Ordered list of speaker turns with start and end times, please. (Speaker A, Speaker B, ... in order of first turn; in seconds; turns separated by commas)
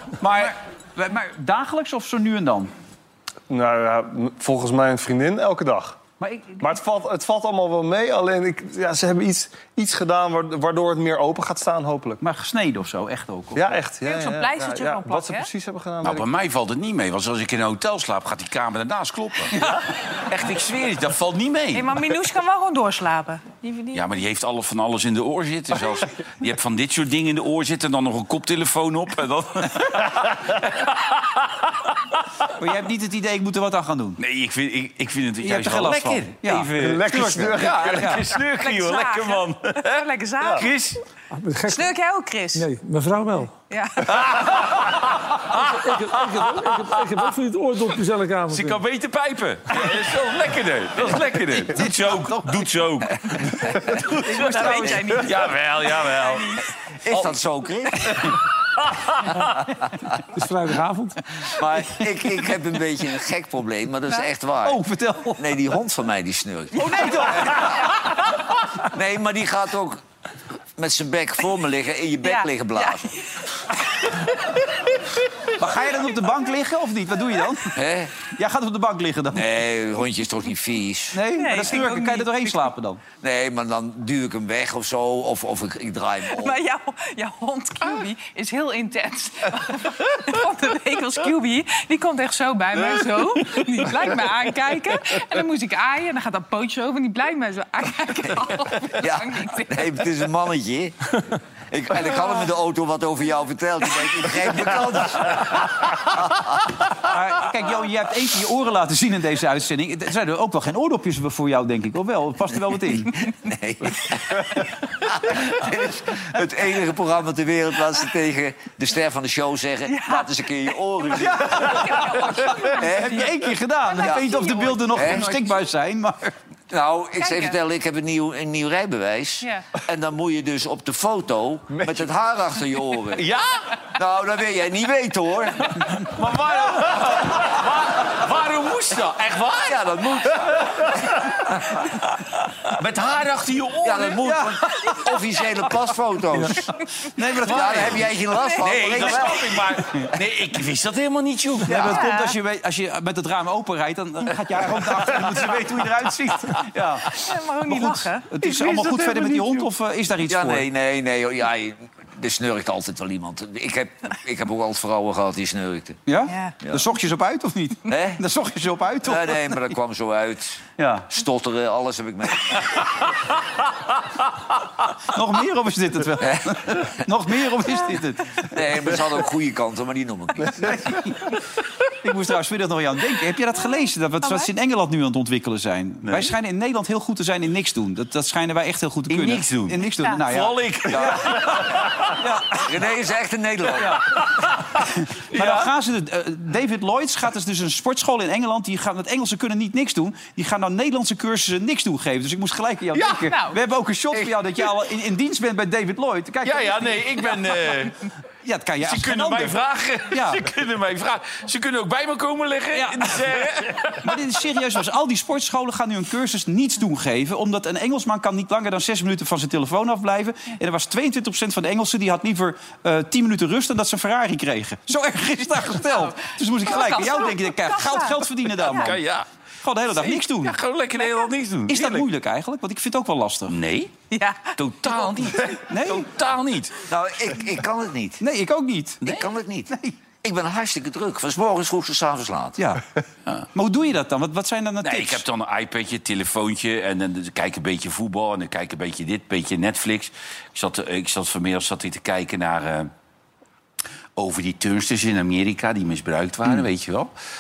Speaker A: 0.2-2.7, Speaker B: 3.5-6.0, Speaker A: 6.2-6.7, Speaker B: 6.6-12.2, Speaker A: 12.2-13.8, Speaker B: 13.6-16.3, Speaker C: 14.0-15.5, Speaker D: 16.0-19.6, Speaker D: 20.3-22.1, Speaker C: 21.7-24.0, Speaker D: 23.9-31.5, Speaker A: 32.5-34.2, Speaker D: 34.2-39.9, Speaker A: 35.4-38.2, Speaker B: 36.8-38.3, Speaker C: 38.6-40.7, Speaker D: 40.5-41.0, Speaker E: 41.3-41.9, Speaker C: 41.7-42.6, Speaker E: 42.5-43.5, Speaker C: 43.7-44.2, Speaker D: 44.1-47.0, Speaker E: 45.6-48.8, Speaker D: 48.5-56.6, Speaker A: 51.5-52.8, Speaker A: 53.9-55.2, Speaker C: 54.3-55.4, Speaker C: 56.0-56.6, Speaker F: 57.0-58.3, Speaker D: 57.1-57.4, Speaker D: 58.8-59.4, Speaker E: 60.3-61.2, Speaker F: 61.4-64.8, Speaker A: 64.6-65.4, Speaker F: 65.4-67.9, Speaker A: 66.7-67.8, Speaker F: 68.8-70.0, Speaker F: 70.8-73.1, Speaker C: 72.2-73.1, Speaker A: 75.6-79.5, Speaker F: 77.7-78.1, Speaker F: 79.3-81.2, Speaker A: 81.1-83.0, Speaker C: 81.4-82.7, Speaker F: 83.2-86.6, Speaker C: 86.3-100.0, Speaker F: 99.0-106.4, Speaker A: 107.0-113.2, Speaker F: 113.3-123.3, Speaker C: 119.9-120.3, Speaker A: 121.2-126.3, Speaker C: 121.6-123.3, Speaker C: 123.8-125.5, Speaker F: 124.0-125.4, Speaker F: 126.7-133.3, Speaker C: 127.2-127.6, Speaker C: 129.4-129.7, Speaker B: 131.8-132.0, Speaker D: 133.2-133.7, Speaker F: 134.0-135.9, Speaker D: 136.1-140.4, Speaker F: 139.6-141.2, Speaker D: 142.7-144.2, Speaker F: 143.8-146.6, Speaker A: 144.2-144.6, Speaker A: 147.1-148.2, Speaker F: 147.5-149.7, Speaker D: 147.5-148.1, Speaker C: 148.4-148.7, Speaker D: 148.6-152.0, Speaker A: 148.9-149.2, Speaker A: 151.7-160.7, Speaker C: 151.8-152.4, Speaker C: 157.2-158.3, Speaker D: 158.4-159.7, Speaker F: 160.3-166.0, Speaker A: 166.1-169.7, Speaker C: 166.3-166.6, Speaker F: 167.9-168.2, Speaker F: 169.1-172.9, Speaker A: 170.8-171.1, Speaker A: 175.1-178.5, Speaker F: 176.2-176.9, Speaker F: 178.4-180.8, Speaker A: 180.5-181.4, Speaker A: 182.0-192.6, Speaker C: 184.2-184.5, Speaker D: 186.1-186.3, Speaker D: 189.1-191.9, Speaker F: 191.0-191.2, Speaker F: 192.6-194.0, Speaker A: 193.7-194.1, Speaker A: 194.9-206.9, Speaker D: 195.3-195.7, Speaker C: 203.1-203.6, Speaker D: 206.4-208.0, Speaker A: 208.4-209.6, Speaker D: 208.8-214.0, Speaker A: 210.1-210.4, Speaker A: 212.7-213.2, Speaker A: 214.0-229.0, Speaker C: 225.7-228.9, Speaker D: 228.7-229.3, Speaker A: 229.6-230.6, Speaker D: 230.0-232.1, Speaker A: 231.7-233.6, Speaker D: 233.5-233.9, Speaker C: 234.1-235.3, Speaker D: 234.6-236.8, Speaker A: 235.5-236.1, Speaker F: 236.9-238.2, Speaker A: 238.2-239.2, Speaker F: 239.0-239.7, Speaker A: 239.7-239.9, Speaker F: 240.2-242.6, Speaker A: 242.6-242.8, Speaker A: 243.5-245.2, Speaker D: 244.8-252.9, Speaker D: 254.2-257.1